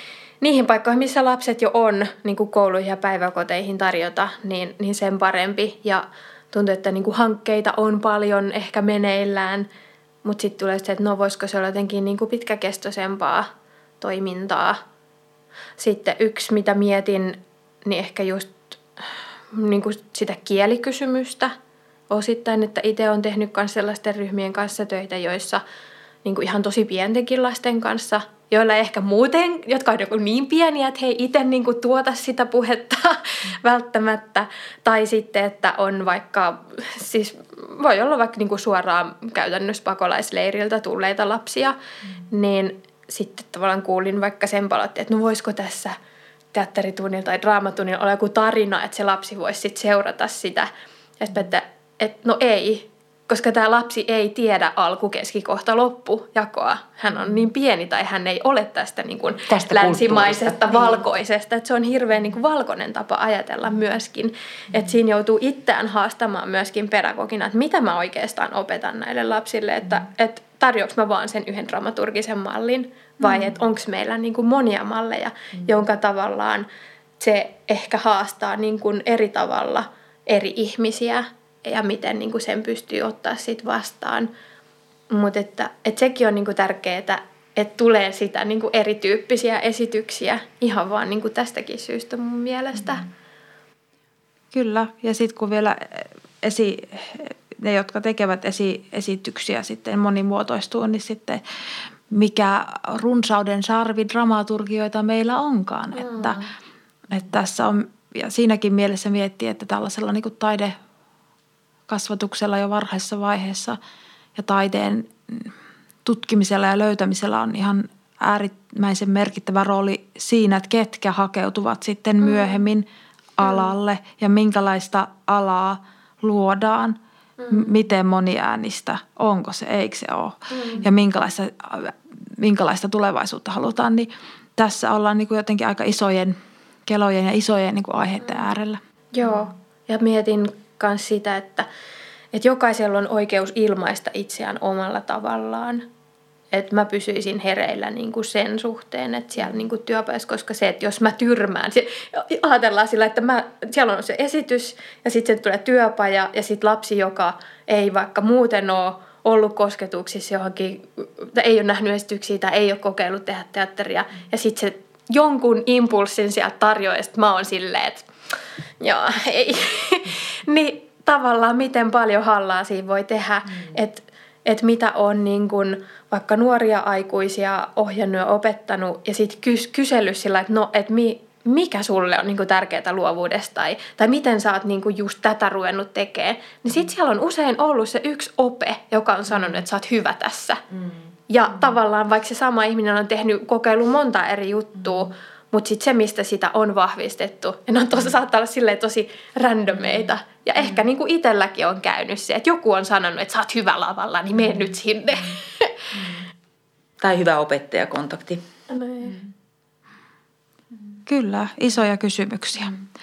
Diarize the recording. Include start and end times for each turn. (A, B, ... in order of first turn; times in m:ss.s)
0:00.4-0:09.7 A
0:10.2-0:14.8 A
0:15.8-0:18.8 A
0:19.5-0:21.5 A
0:22.1-0:25.6 A
0:26.2-0:41.8 A
0:42.3-0:46.0 A
0:46.5-1:16.7 A
0:59.5-1:01.0 B
1:13.2-1:13.5 C
1:17.2-1:24.3 A
1:25.1-1:33.0 A
1:34.5-1:41.4 C
1:42.1-1:46.4 C
1:46.0-1:46.4 A
1:47.1-1:50.8 C
1:51.9-1:53.8 C
1:54.4-1:55.5 C
1:56.0-2:02.8 C
2:02.2-2:02.6 A
2:03.4-2:07.0 C
2:03.4-2:03.7 A
2:07.4-2:07.7 A
2:07.5-2:16.4 C
2:10.5-2:10.8 A
2:16.8-2:18.8 C
2:19.1-2:21.7 A
2:22.3-2:25.9 A
2:26.5-2:48.1 A
2:48.8-3:10.6 A
3:11.3-3:25.9 A
3:27.0-3:28.4 B
3:28.7-3:29.2 A
3:31.1-3:32.8 C